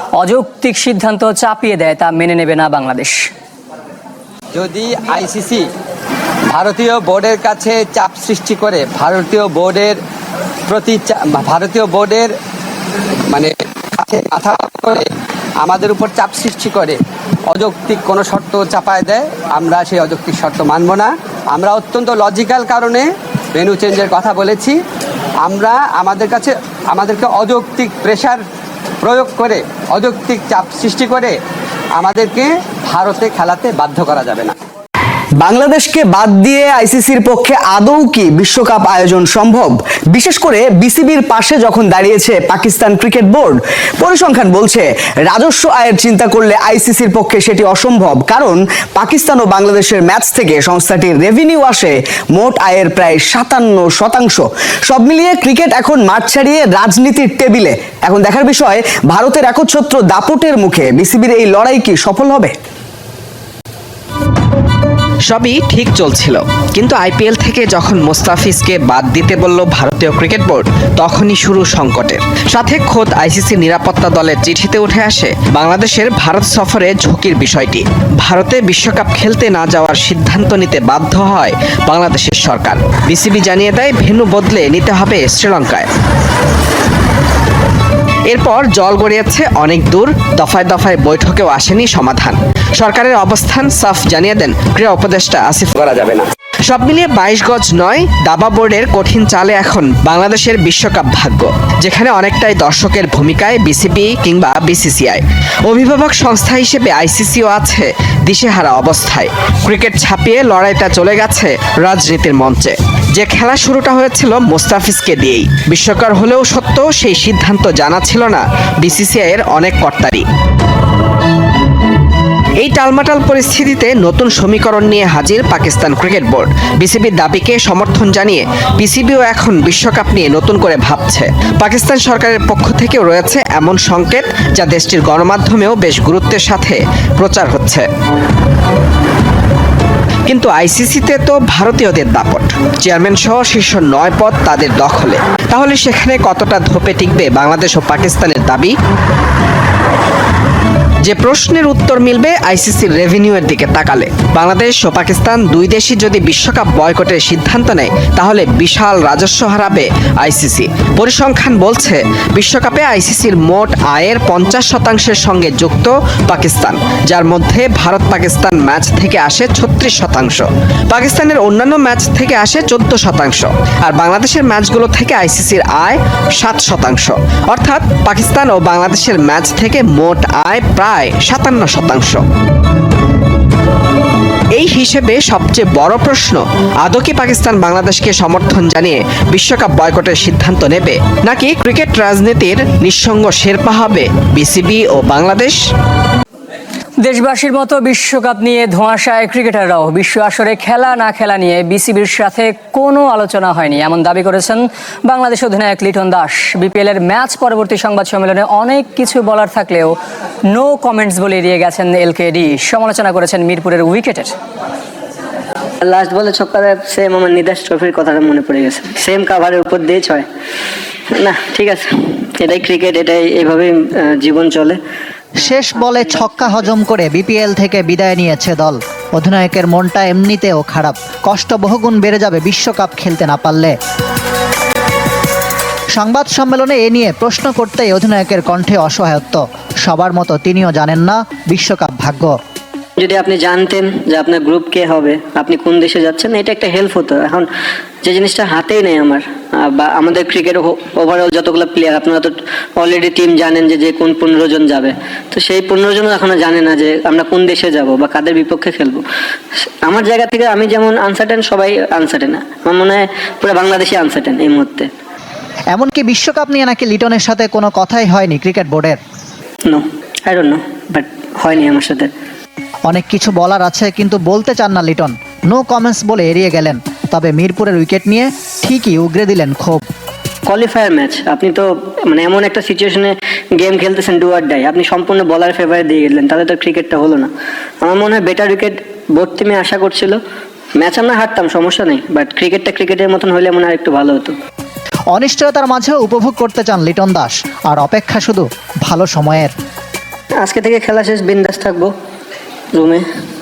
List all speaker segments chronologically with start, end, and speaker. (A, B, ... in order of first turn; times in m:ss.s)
0:00.2-0:03.2 A
0:04.6-0:05.6 B
0:06.5-0:10.0 B
0:10.7-0:12.3 B
0:13.3-0:15.0 B
0:15.6-0:17.0 B
0:17.5-0:24.8 B
0:25.4-0:28.4 B
0:29.0-0:31.4 B
0:32.0-0:34.5 B
0:35.4-1:02.5 C
1:05.3-1:25.9 D
1:28.3-1:36.1 D
1:36.6-2:00.2 D
2:02.6-2:17.8 D
2:20.3-2:28.7 D
2:31.0-3:02.2 D
3:04.5-3:15.6 D
3:17.0-3:30.0 A
3:30.5-3:34.3 A
3:35.8-3:40.2 E
3:41.1-3:44.8 E
3:45.4-3:53.7 F
3:56.0-4:02.3 F
4:03.0-4:07.5 E
4:08.0-4:19.0 E
4:19.8-4:24.9 E
4:25.7-4:29.0 F
4:29.6-4:32.1 E
4:32.9-4:39.8 F
4:40.5-4:47.3 E
4:47.8-4:50.2 E
4:50.8-4:54.3 E
4:55.1-4:59.5 F
5:00.4-5:01.9 E
5:02.7-5:03.0 E